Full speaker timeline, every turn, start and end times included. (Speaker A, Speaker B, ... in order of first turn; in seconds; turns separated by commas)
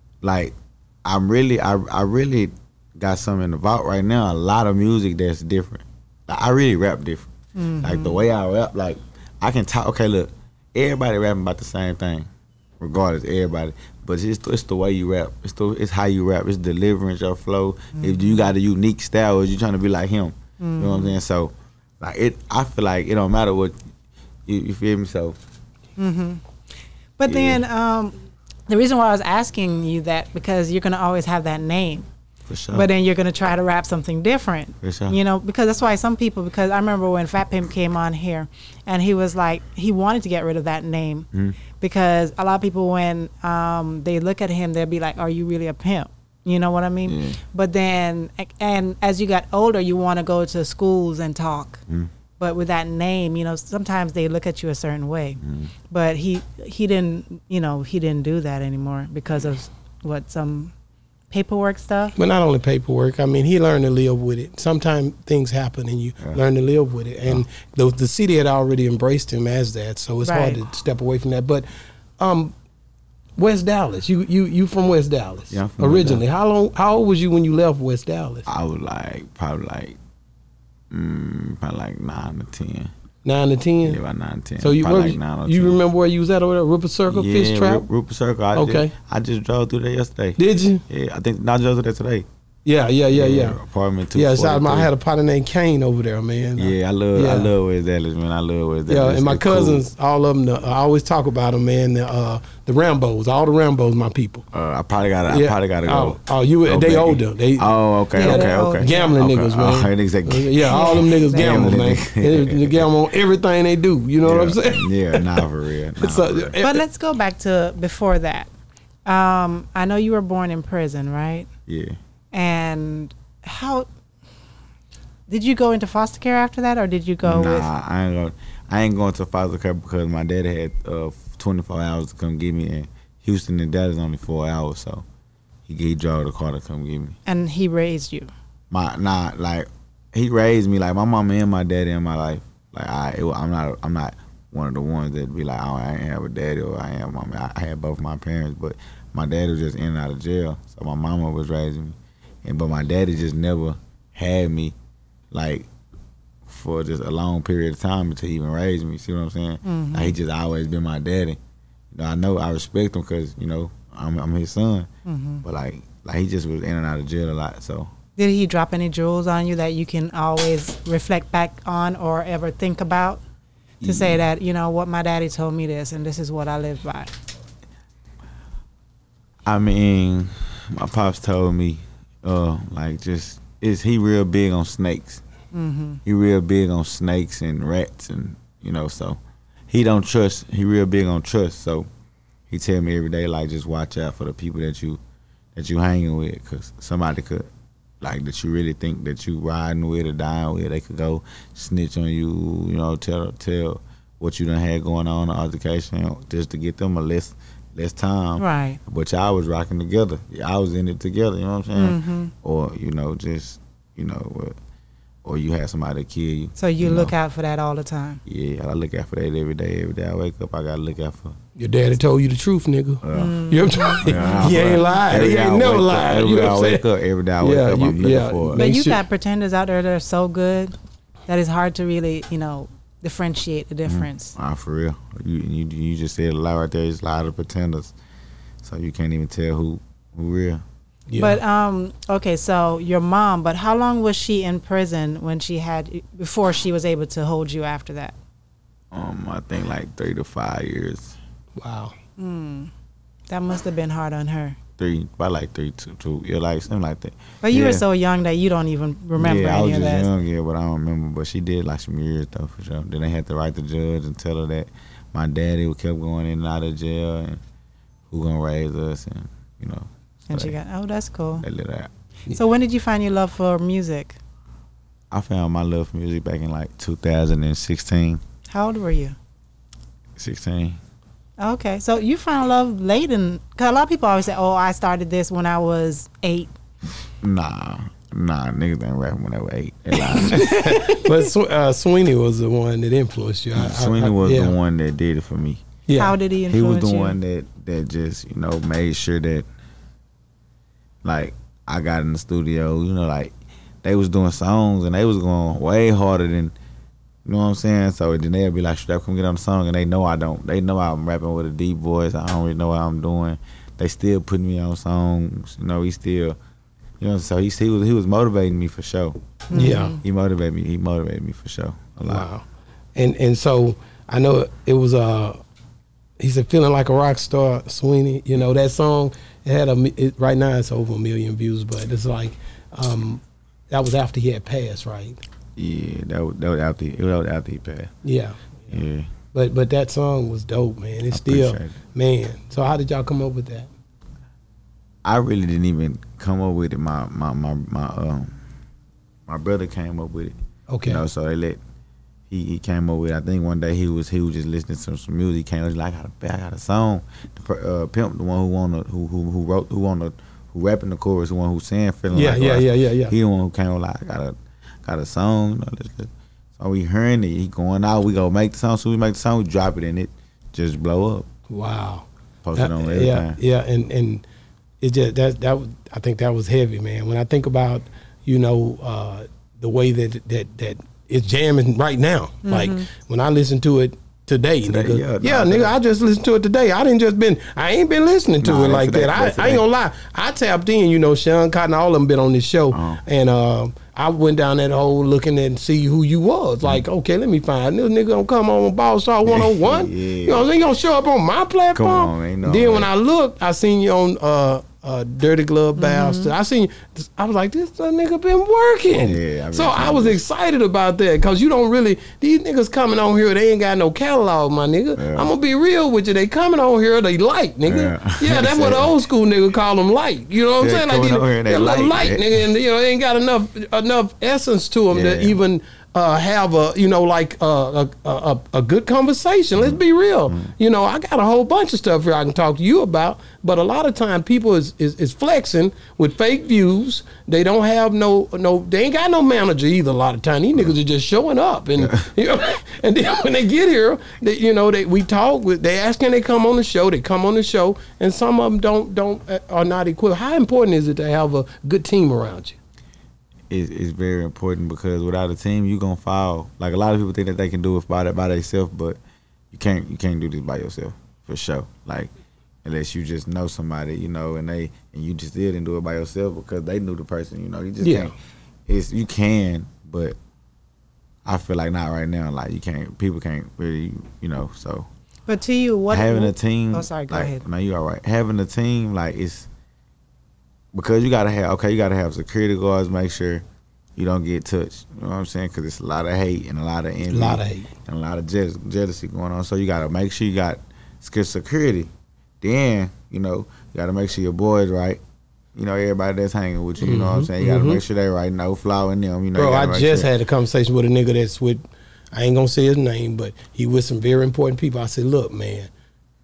Speaker A: 0.2-7.3, Speaker B: 7.5-8.2, Speaker A: 7.8-12.3, Speaker A: 12.8-23.8, Speaker B: 17.9-18.4, Speaker B: 20.6-21.2, Speaker A: 24.4-25.4, Speaker B: 26.0-26.4, Speaker B: 27.2-32.1, Speaker A: 27.3-27.6, Speaker A: 32.5-32.9, Speaker B: 32.7-41.3, Speaker A: 34.8-35.2, Speaker B: 41.8-51.8, Speaker A: 47.0-47.4, Speaker B: 52.4-60.7, Speaker A: 55.4-55.7, Speaker B: 61.3-62.1, Speaker C: 62.1-71.7, Speaker B: 70.2-70.6, Speaker C: 72.2-72.5, Speaker C: 73.4-78.5, Speaker A: 75.5-76.2, Speaker A: 78.5-80.0, Speaker A: 80.9-82.9, Speaker C: 83.2-84.0, Speaker A: 83.8-85.8, Speaker C: 84.6-87.8, Speaker A: 87.1-92.3, Speaker C: 88.5-88.9, Speaker C: 90.4-90.8, Speaker C: 92.6-93.6, Speaker A: 93.1-94.9, Speaker C: 94.1-97.5, Speaker A: 96.6-99.8, Speaker C: 98.9-104.4, Speaker A: 104.5-112.9, Speaker C: 105.3-115.4, Speaker B: 108.2-109.1, Speaker B: 110.6-111.6, Speaker A: 114.2-116.5, Speaker C: 116.0-116.8, Speaker B: 116.6-118.5, Speaker B: 119.0-121.5, Speaker A: 121.7-122.0, Speaker B: 122.3-123.9, Speaker B: 125.3-127.7, Speaker A: 127.2-135.0, Speaker A: 135.7-137.2, Speaker B: 137.2-138.3, Speaker A: 138.7-154.7, Speaker A: 155.3-155.7, Speaker A: 156.4-161.4, Speaker B: 159.6-160.1, Speaker A: 161.9-164.9, Speaker B: 165.1-165.4, Speaker A: 165.4-167.9, Speaker B: 168.2-173.2, Speaker A: 173.8-174.2, Speaker B: 173.8-177.1, Speaker A: 179.4-185.2, Speaker B: 185.5-186.0, Speaker A: 186.1-191.9, Speaker A: 192.5-195.0, Speaker A: 195.5-197.5, Speaker A: 198.0-214.6, Speaker B: 208.4-208.8, Speaker B: 211.8-212.3, Speaker A: 215.2-217.1, Speaker B: 216.6-218.2, Speaker A: 218.2-221.3, Speaker C: 221.6-226.8, Speaker A: 223.0-223.4, Speaker B: 223.1-224.6, Speaker A: 224.0-228.6, Speaker C: 227.4-229.0, Speaker B: 228.6-230.8, Speaker B: 231.3-234.3, Speaker A: 233.8-237.9, Speaker A: 238.6-240.6, Speaker C: 241.1-241.4, Speaker B: 241.2-248.2, Speaker A: 248.9-251.2, Speaker C: 251.6-251.9, Speaker B: 252.2-252.7, Speaker B: 253.3-254.6, Speaker A: 254.8-257.8, Speaker B: 257.4-260.1, Speaker A: 259.1-267.4, Speaker A: 268.1-270.5, Speaker B: 270.3-271.4, Speaker A: 271.4-271.9, Speaker B: 272.3-274.2, Speaker A: 275.1-278.2, Speaker B: 278.5-279.1, Speaker A: 280.2-280.8, Speaker B: 281.4-286.5, Speaker A: 287.2-290.5, Speaker B: 290.1-291.2, Speaker C: 290.3-294.5, Speaker A: 293.5-295.6, Speaker C: 295.9-296.1, Speaker B: 296.0-297.2, Speaker A: 296.5-299.5, Speaker A: 301.0-306.5, Speaker A: 307.2-316.4, Speaker A: 317.0-319.2, Speaker B: 319.5-320.0, Speaker C: 319.5-319.9, Speaker A: 320.0-322.3, Speaker C: 322.0-322.4, Speaker C: 322.9-325.4, Speaker C: 326.2-335.2, Speaker A: 335.6-337.9, Speaker C: 338.0-338.8, Speaker A: 338.7-339.1, Speaker C: 339.3-343.7, Speaker A: 341.1-341.8, Speaker A: 345.0-348.4, Speaker A: 349.3-350.3, Speaker C: 350.7-351.0, Speaker A: 350.9-351.6, Speaker A: 352.3-371.3, Speaker C: 362.1-363.1, Speaker C: 371.5-374.2, Speaker A: 372.4-373.4, Speaker C: 374.8-452.6, Speaker B: 382.4-382.9, Speaker A: 384.6-385.7, Speaker A: 388.4-389.6, Speaker A: 392.7-393.0, Speaker A: 399.2-400.5, Speaker A: 401.7-402.9, Speaker B: 405.8-406.3, Speaker A: 408.9-410.2, Speaker A: 414.9-415.3, Speaker A: 417.6-418.9, Speaker A: 420.6-422.4, Speaker A: 424.9-425.4, Speaker A: 441.8-442.0, Speaker A: 453.5-459.0, Speaker A: 459.5-462.1, Speaker A: 462.6-468.1, Speaker C: 467.8-468.1, Speaker A: 468.7-470.2, Speaker A: 471.2-474.9, Speaker B: 475.3-477.4, Speaker A: 475.9-479.5, Speaker A: 480.7-483.4, Speaker A: 483.9-491.9, Speaker C: 487.1-487.7, Speaker A: 492.4-495.0, Speaker A: 495.5-500.1, Speaker C: 496.8-497.8, Speaker C: 499.3-505.7